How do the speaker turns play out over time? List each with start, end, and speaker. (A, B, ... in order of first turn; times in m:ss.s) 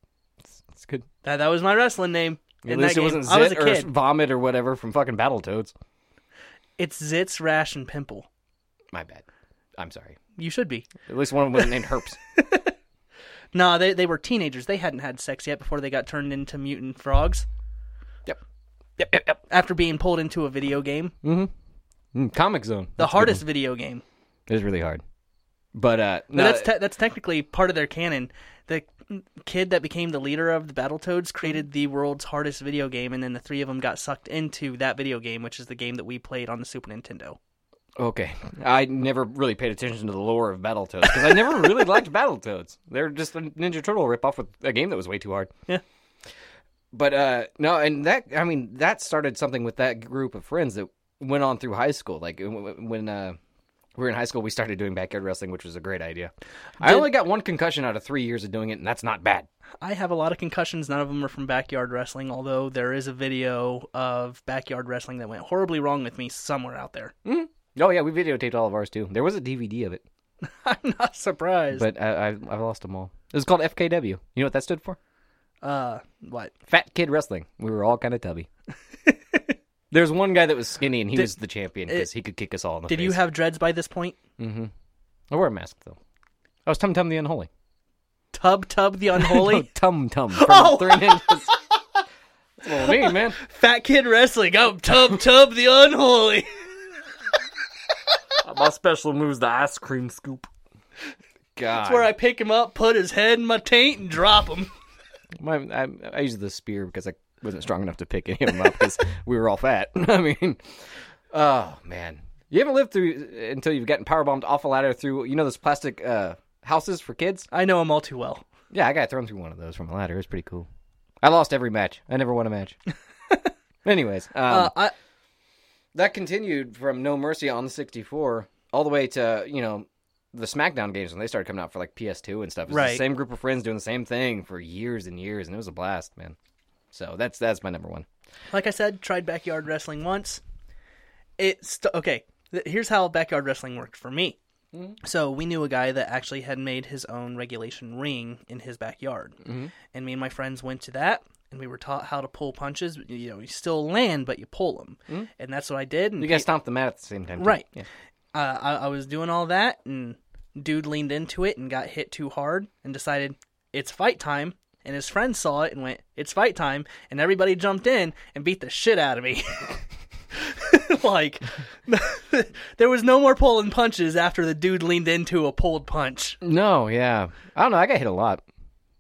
0:00.4-0:01.0 A
0:01.2-0:03.9 B
0:02.6-0:05.7 A
0:06.8-0:08.3 B
0:08.9-0:09.2 A
0:09.8-0:10.2 A
0:10.4-0:10.9 B
0:11.0-0:12.2 A
0:11.6-0:11.8 B
0:12.4-0:12.7 B
0:13.5-0:17.4 B
0:19.0-0:19.4 A
0:19.5-0:21.1 B
0:21.2-0:21.5 A
0:22.1-0:23.4 A
0:23.0-0:24.0 B
0:24.5-0:25.0 A
0:25.7-0:26.7 A
0:26.3-0:37.4 B
0:38.0-0:45.5 A
0:46.9-0:53.4 A
0:54.0-0:59.5 A
0:56.8-0:57.1 B
0:59.8-1:07.1 B
1:07.2-1:10.0 A
1:10.4-1:11.9 B
1:11.7-1:15.0 A
1:15.6-1:16.5 B
1:16.7-1:18.5 A
1:19.0-1:19.6 B
1:19.9-1:23.2 A
1:22.9-1:24.2 B
1:24.4-1:24.7 A
1:25.3-1:26.0 A
1:26.7-1:27.5 A
1:28.3-1:29.7 B
1:29.1-1:31.5 A
1:30.3-1:31.8 B
1:32.6-1:33.4 A
1:32.7-1:36.7 B
1:38.4-1:40.4 A
1:41.6-1:42.1 A
1:41.8-1:44.7 B
1:45.4-1:50.7 A
1:51.3-1:57.5 A
1:57.5-1:58.4 B
1:58.7-2:00.7 A
2:01.2-2:02.8 A
2:03.8-2:04.7 A
2:04.5-2:04.9 B
2:05.9-2:16.4 A
2:12.7-2:13.0 B
2:16.9-2:18.0 A
2:18.5-2:20.4 B
2:21.4-2:24.4 B
2:25.0-2:36.4 B
2:29.4-2:29.7 A
2:36.2-2:37.8 A
2:37.4-2:37.7 B
2:38.3-2:49.8 B
2:50.3-2:56.4 B
2:56.4-2:58.4 A